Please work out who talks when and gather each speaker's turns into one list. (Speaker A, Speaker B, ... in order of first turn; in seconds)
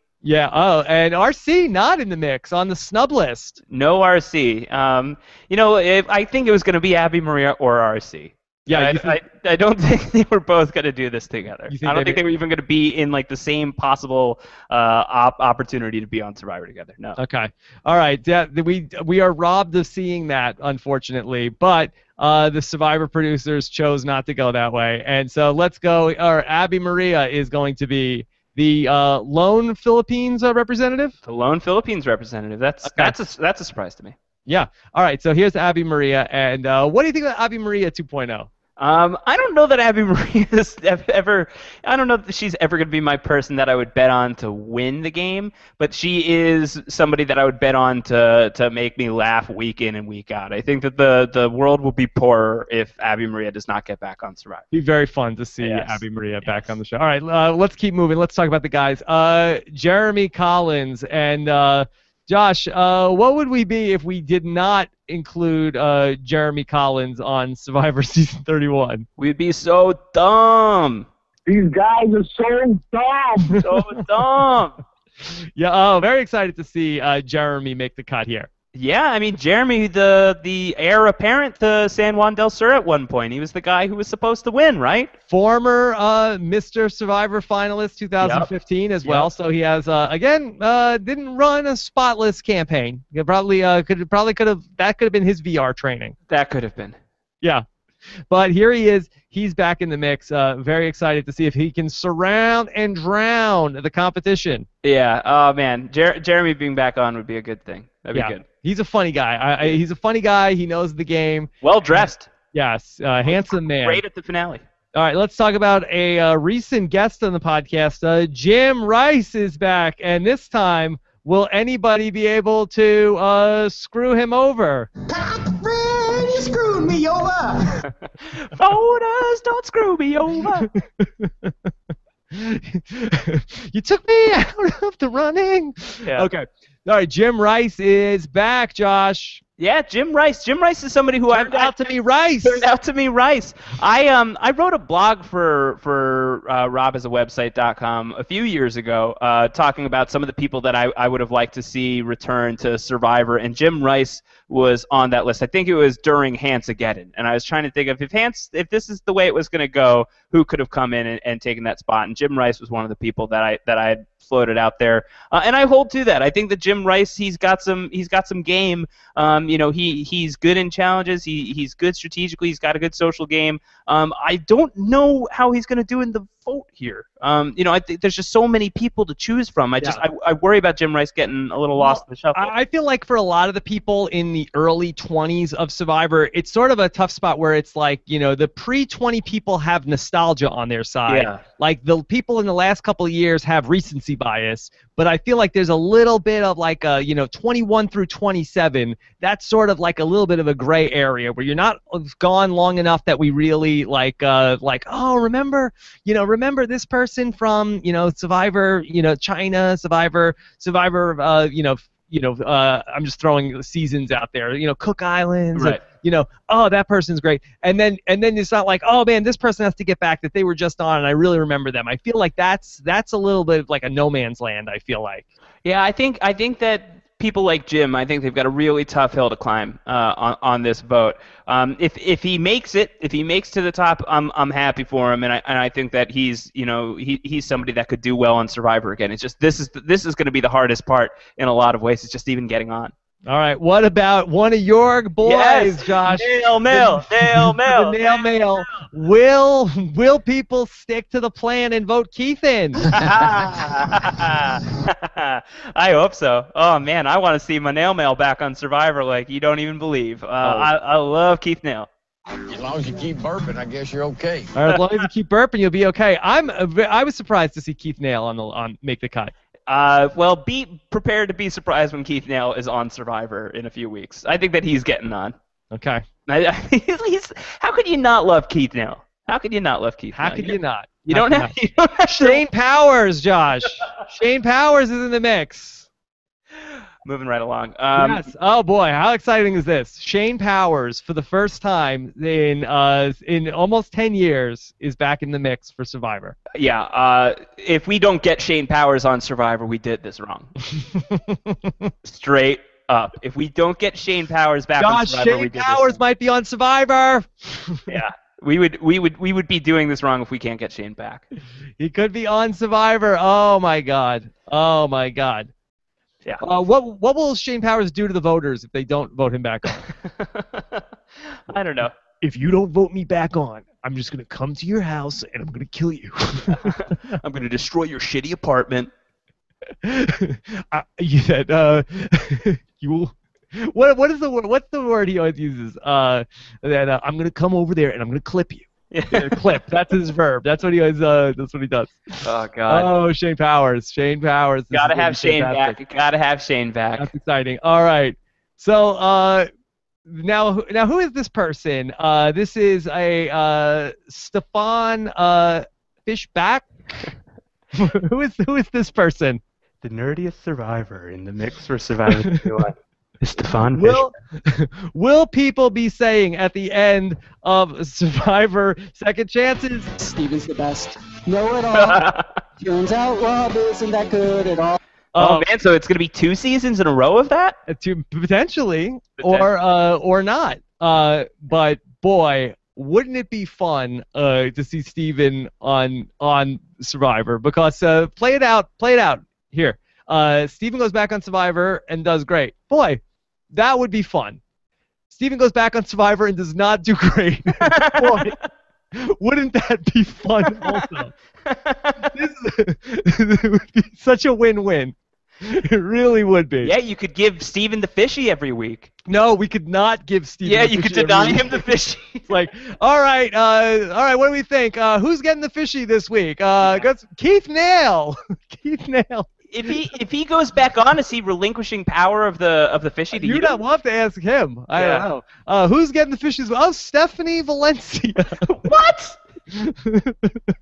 Speaker A: 0.2-3.6, 8.7-9.2, 11.7-12.2, 17.2-31.2, 32.8-33.2, 34.5-38.5, 54.7-69.1, 75.6-78.5, 85.3-96.2, 98.3-104.7, 108.1-112.0, 112.5-114.0, 114.9-124.9, 130.8-131.5, 132.3-139.4, 141.3-142.7, 181.8-225.3, 243.3-252.9, 260.4-260.7, 264.5-269.3, 275.7-276.0, 280.1-281.5, 282.1-285.9, 287.9-296.4, 300.8-301.9, 304.8-307.9, 311.8-315.5, 316.4-319.8, 322.2-326.8, 329.8-345.8, 347.0-349.5, 350.1-356.7, 357.8-359.4, 363.7-369.9, 375.1-375.5, 377.7-393.0, 393.5-394.4, 395.1-398.3, 398.9-401.1, 402.1-406.7, 409.1-411.7, 412.3-419.3, 423.1-428.4, 429.5-430.5
Speaker B: 3.7-17.2, 31.2-34.1, 38.8-54.7, 55.6-56.7, 69.2-71.1, 73.6-74.8, 78.8-85.1, 88.2-88.5, 96.3-97.0, 104.8-108.4, 111.6-112.3, 113.3-114.6, 128.4-130.7, 136.0-136.3, 139.6-141.8, 142.4-182.5, 191.1-191.4, 215.6-215.8, 225.7-242.9, 245.2-248.8, 252.9-261.9, 269.7-275.4, 276.3-282.4, 287.0-288.3, 296.5-300.5, 302.1-306.0, 307.9-311.2, 320.1-320.8, 321.5-321.9, 326.5-328.9, 338.9-339.6, 342.2-342.9, 344.7-347.1, 359.8-364.0, 371.7-372.3, 375.2-377.6, 379.2-379.5, 397.6-398.4, 400.5-400.8, 401.5-402.1, 406.6-408.9, 410.4-412.3, 419.5-423.6, 424.8-425.1, 428.4-429.2
Speaker C: 71.5-73.6
Speaker D: 125.1-127.9, 370.0-372.1, 372.6-374.8
Speaker E: 262.4-264.5